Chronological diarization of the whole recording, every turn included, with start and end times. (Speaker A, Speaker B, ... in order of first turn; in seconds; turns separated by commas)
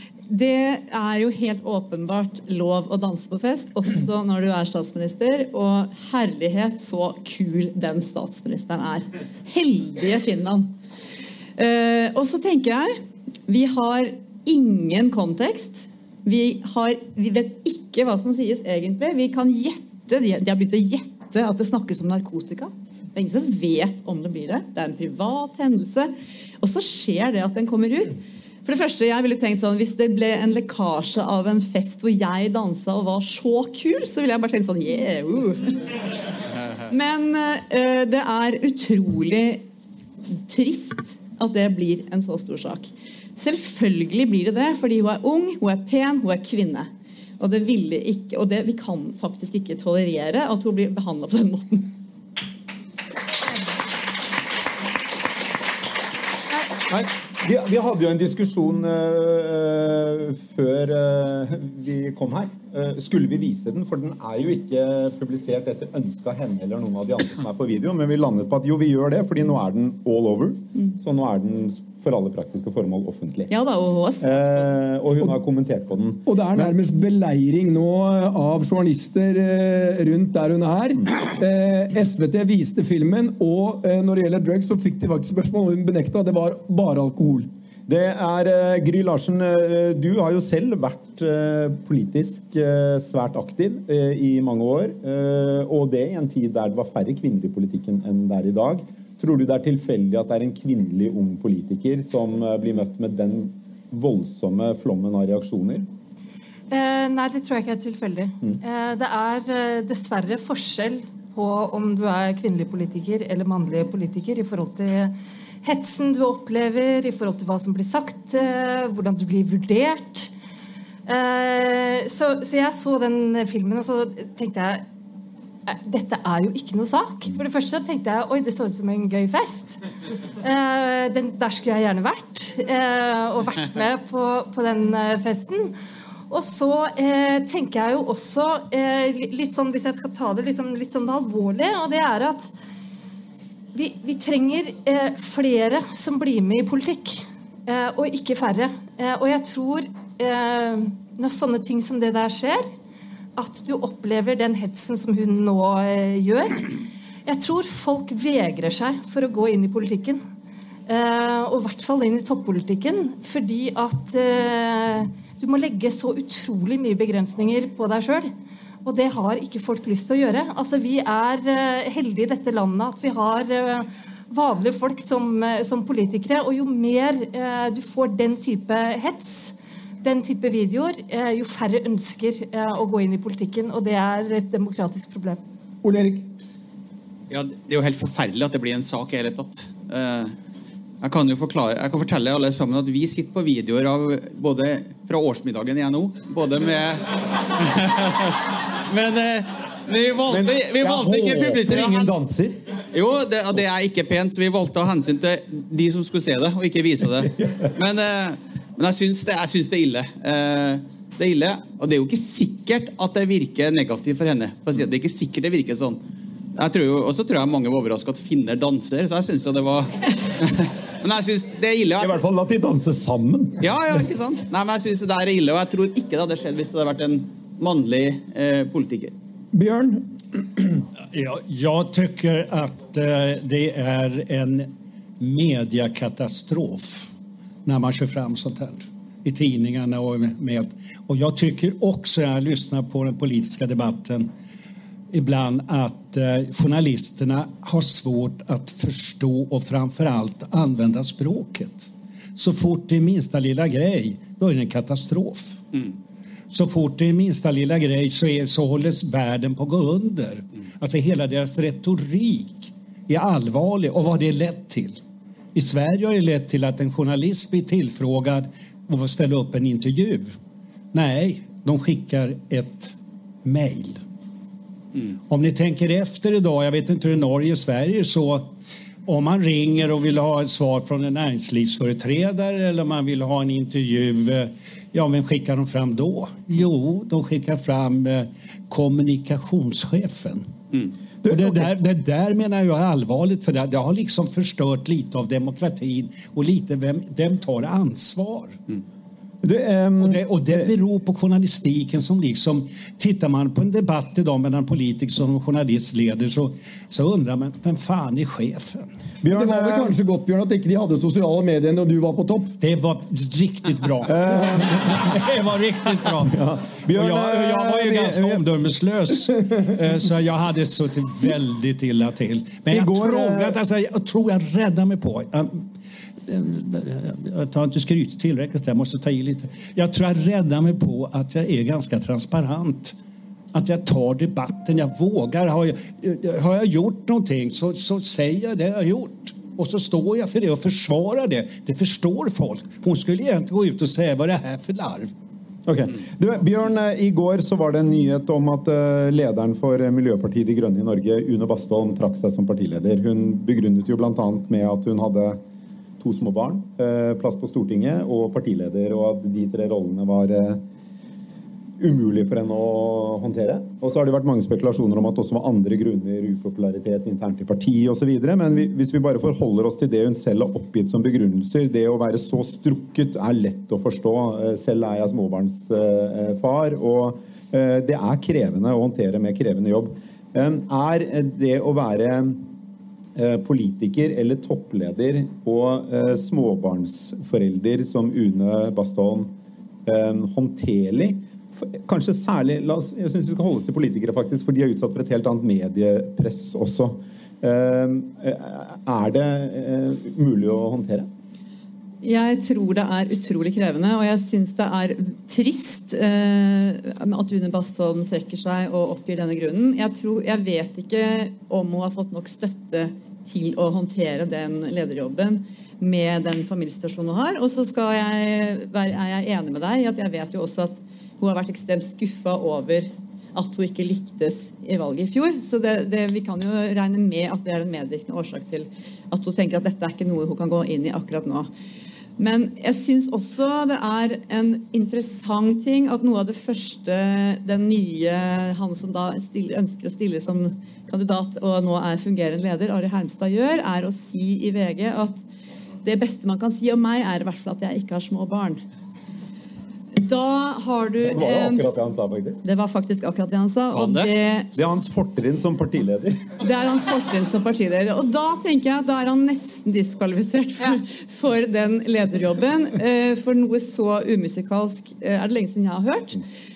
Speaker A: 0.3-10.7, Speaker A: 11.6-35.9, Speaker A: 36.9-39.6, Speaker A: 40.3-46.9, Speaker A: 47.4-51.9, Speaker B: 56.9-73.5, Speaker A: 73.5-74.4, Speaker B: 74.2-76.7, Speaker C: 76.3-87.5, Speaker B: 87.9-105.9, Speaker D: 106.7-120.3, Speaker D: 121.1-124.8, Speaker D: 125.7-129.8, Speaker D: 130.4-135.7, Speaker D: 136.3-142.5, Speaker D: 143.7-152.7, Speaker D: 153.4-160.2, Speaker D: 160.9-168.3, Speaker D: 168.8-185.4, Speaker C: 185.8-186.3, Speaker E: 187.3-190.3, Speaker E: 191.0-202.1, Speaker B: 200.3-202.6, Speaker E: 202.9-216.0, Speaker E: 216.6-222.2, Speaker B: 222.0-223.7, Speaker E: 223.6-229.2, Speaker C: 229.5-230.1, Speaker F: 231.1-234.7, Speaker F: 235.2-237.1, Speaker F: 237.7-244.3, Speaker F: 245.1-255.6, Speaker F: 256.5-265.0, Speaker F: 265.5-270.4, Speaker F: 270.9-274.0, Speaker F: 275.3-278.5, Speaker F: 279.1-290.5, Speaker B: 291.2-291.7, Speaker F: 291.3-298.6, Speaker B: 299.4-300.7, Speaker F: 300.0-308.9, Speaker B: 309.2-309.9, Speaker C: 309.3-312.5, Speaker F: 312.6-325.6, Speaker B: 314.1-315.0, Speaker B: 316.2-318.4, Speaker B: 322.7-323.6, Speaker F: 326.3-333.0, Speaker F: 333.5-345.1, Speaker B: 345.7-355.4, Speaker B: 356.0-360.6, Speaker B: 361.8-382.4, Speaker B: 383.2-389.3, Speaker B: 389.9-401.1, Speaker A: 402.0-431.5, Speaker A: 432.2-445.2, Speaker A: 445.8-448.6, Speaker A: 449.9-451.6, Speaker B: 451.0-452.4, Speaker A: 452.4-454.5, Speaker E: 453.7-454.1, Speaker B: 454.5-456.3, Speaker A: 456.4-466.2